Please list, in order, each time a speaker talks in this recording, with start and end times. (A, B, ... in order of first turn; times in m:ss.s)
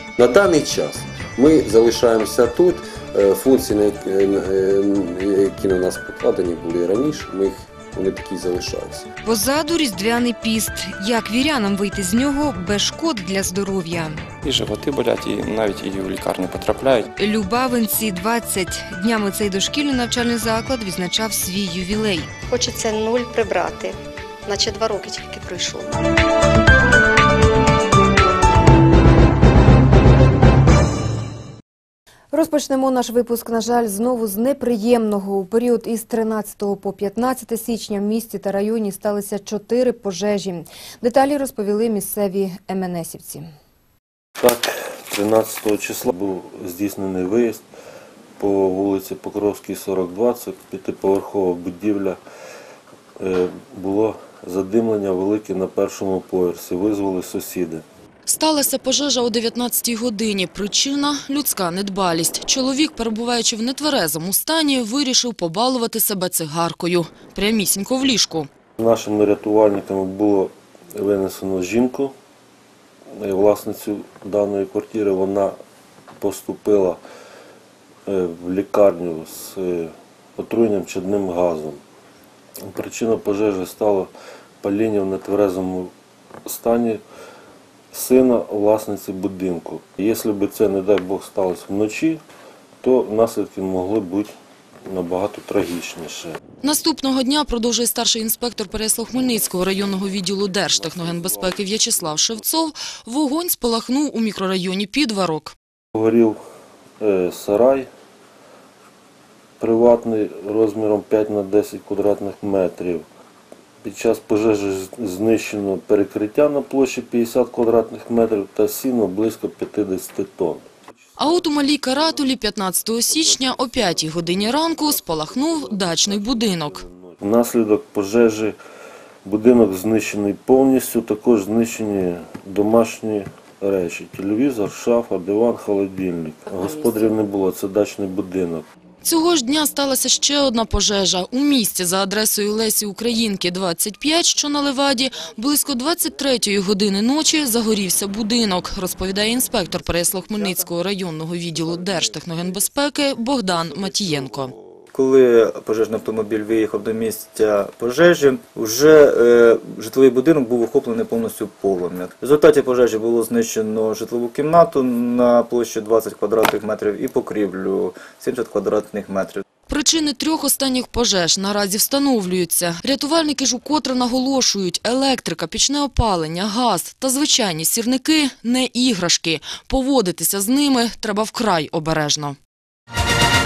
0:00.2-0:09.1 A
0:09.2-0:14.2 B
0:14.4-0:17.0 C
0:17.1-0:22.3 B
0:22.5-0:24.0 D
0:24.5-0:25.9 D
0:32.3-0:43.5 B
0:44.4-0:47.6 E
0:48.4-0:52.2 E
0:53.2-0:57.8 E
0:58.3-1:08.5 F
1:08.8-1:12.1 E
1:13.2-1:15.6 E
1:16.2-1:17.0 E
1:18.1-1:21.8 E
1:22.6-1:24.1 E
1:24.6-1:25.9 E
1:26.5-1:27.0 E
1:27.9-1:32.2 E
1:32.8-1:34.3 E
1:34.9-1:36.4 E
1:36.6-1:45.6 F
1:40.6-1:42.5 E
1:46.0-1:46.4 E
1:47.0-1:47.9 E
1:49.6-1:53.1 E
1:53.8-2:02.2 E
2:01.2-2:06.8 F
2:03.0-2:08.6 E
2:09.2-2:18.7 E
2:19.0-2:34.5 F
2:35.0-2:49.4 G
2:49.7-3:02.4 F